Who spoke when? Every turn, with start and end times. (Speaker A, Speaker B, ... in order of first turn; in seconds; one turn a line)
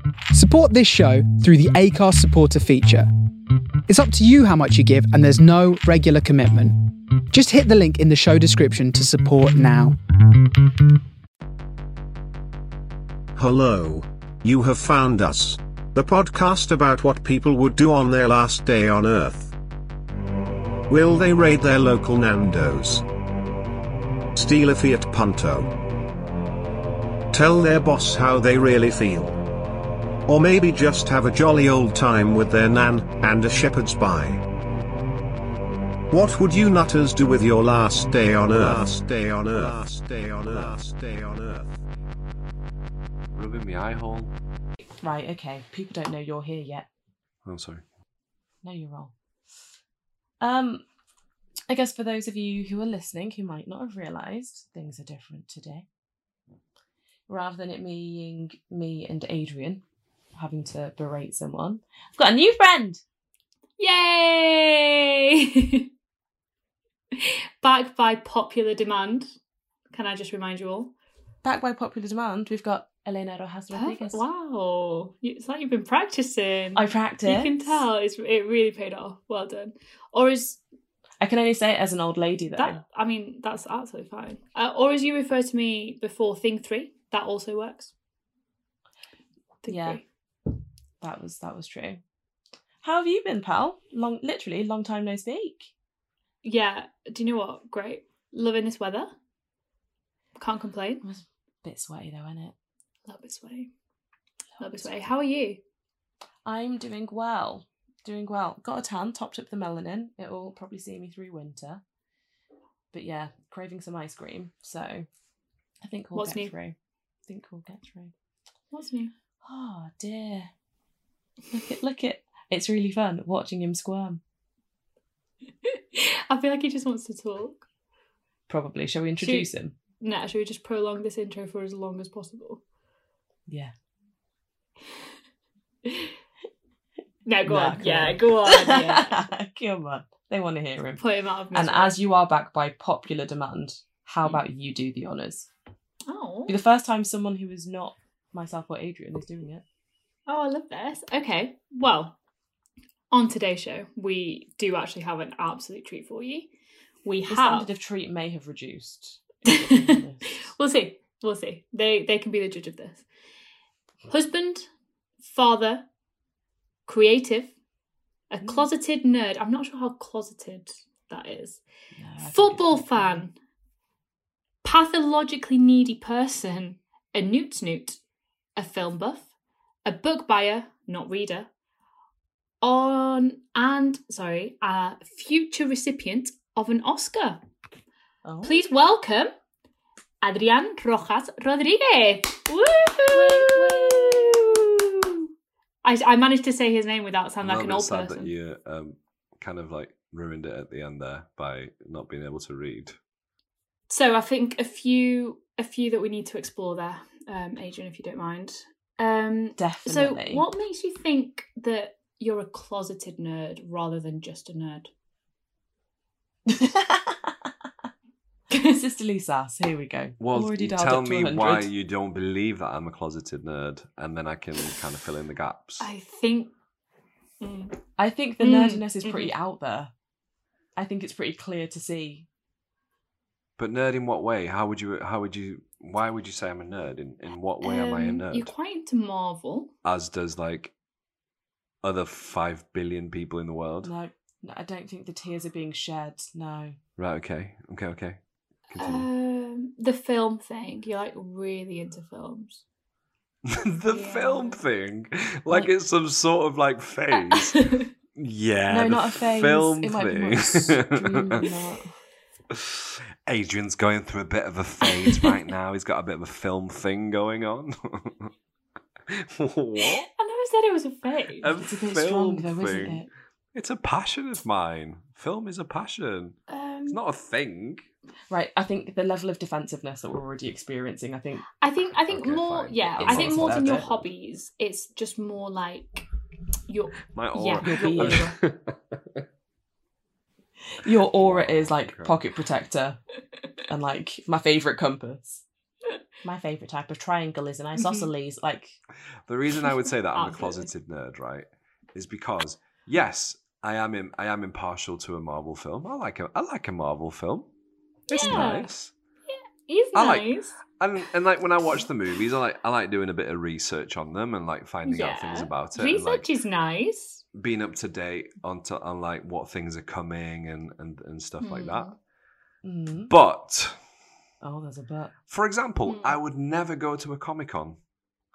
Speaker A: 0.3-3.1
Speaker A: 3.9-10.0
Speaker B: 13.4-19.6
Speaker B: 20.9-23.1
Speaker B: 24.4-25.8
Speaker B: 27.3-29.4
Speaker B: 30.3-34.4
Speaker B: 36.1-41.7
Speaker C: 43.3-44.3
Speaker D: 45.0-46.9
Speaker C: 47.5-47.8
Speaker D: 48.6-49.1
Speaker D: 50.4-50.9
Speaker D: 51.7-55.9
Speaker D: 57.3-59.8
Speaker D: 60.4-63.0
Speaker E: 63.8-65.9
Speaker E: 67.2-69.3
Speaker E: 69.9-70.9
Speaker D: 71.4-74.2
Speaker E: 73.7-80.6
Speaker D: 76.8-77.9
Speaker D: 81.2-82.8
Speaker E: 82.6-87.9
Speaker E: 89.6-90.0
Speaker D: 89.7-90.0
Speaker D: 91.0-92.0
Speaker D: 92.8-95.7
Speaker E: 96.4-99.1
Speaker E: 100.4-101.0
Speaker D: 101.0-102.5
Speaker E: 103.1-103.7
Speaker E: 104.6-105.6
Speaker D: 106.5-111.8
Speaker D: 112.9-115.1
Speaker D: 115.8-116.8
Speaker E: 116.2-116.5
Speaker D: 117.3-118.1
Speaker E: 118.7-119.1
Speaker D: 119.4-120.5
Speaker D: 121.5-124.2
Speaker E: 125.7-127.7
Speaker D: 128.5-129.8
Speaker E: 129.2-129.5
Speaker E: 130.0-132.6
Speaker D: 133.5-133.7
Speaker E: 135.9-136.1
Speaker E: 137.2-139.2
Speaker D: 137.5-145.5
Speaker E: 141.0-142.0
Speaker E: 146.1-146.6
Speaker D: 146.5-149.6
Speaker E: 150.3-152.2
Speaker E: 153.1-156.5
Speaker E: 157.1-157.7
Speaker D: 157.3-160.5
Speaker E: 159.5-163.0
Speaker E: 164.1-164.7
Speaker E: 165.2-165.9
Speaker E: 166.9-167.5
Speaker E: 168.3-171.6
Speaker D: 168.4-168.7
Speaker D: 172.0-173.3
Speaker E: 172.2-173.3
Speaker E: 174.6-178.0
Speaker E: 178.6-179.2
Speaker E: 179.8-181.5
Speaker E: 182.6-187.4
Speaker D: 188.2-188.6
Speaker E: 188.4-189.3
Speaker E: 190.2-195.2
Speaker D: 193.1-194.5
Speaker E: 195.8-198.3
Speaker C: 197.4-203.0
Speaker E: 203.9-214.9
Speaker D: 209.6-210.4
Speaker D: 216.5-217.3
Speaker E: 218.5-218.8
Speaker D: 218.5-221.7
Speaker C: 220.2-225.9
Speaker E: 225.8-226.5
Speaker E: 227.4-227.8
Speaker D: 228.0-229.9
Speaker E: 228.4-229.3
Speaker D: 230.8-232.3
Speaker C: 233.6-238.5
Speaker E: 237.6-239.7
Speaker C: 239.8-240.7
Speaker C: 241.8-243.9
Speaker D: 243.8-246.8
Speaker C: 247.0-248.2
Speaker C: 248.7-249.1
Speaker E: 248.8-252.6
Speaker C: 253.5-257.6
Speaker E: 253.9-254.6
Speaker E: 257.1-257.9
Speaker C: 258.1-261.5
Speaker D: 258.7-262.0
Speaker C: 262.5-268.3
Speaker C: 269.1-270.1
Speaker E: 269.8-271.5
Speaker C: 271.4-277.9
Speaker D: 271.6-273.1
Speaker E: 276.5-277.0
Speaker D: 278.3-281.5
Speaker E: 281.6-286.1
Speaker C: 282.1-283.8
Speaker D: 283.0-283.9
Speaker E: 286.7-288.4
Speaker C: 287.1-289.2
Speaker D: 287.6-288.3
Speaker D: 290.7-293.0
Speaker C: 291.2-292.2
Speaker D: 293.7-295.4
Speaker D: 296.2-298.8
Speaker E: 297.8-298.1
Speaker C: 299.3-307.5
Speaker E: 299.6-300.7
Speaker E: 308.1-308.7
Speaker C: 308.1-308.9
Speaker E: 309.3-310.6
Speaker C: 309.9-316.3
Speaker E: 314.9-317.2
Speaker C: 317.4-321.9
Speaker E: 321.4-321.9
Speaker D: 322.6-323.1
Speaker C: 323.1-323.8
Speaker D: 324.4-325.1
Speaker C: 325.3-327.8
Speaker E: 325.9-326.2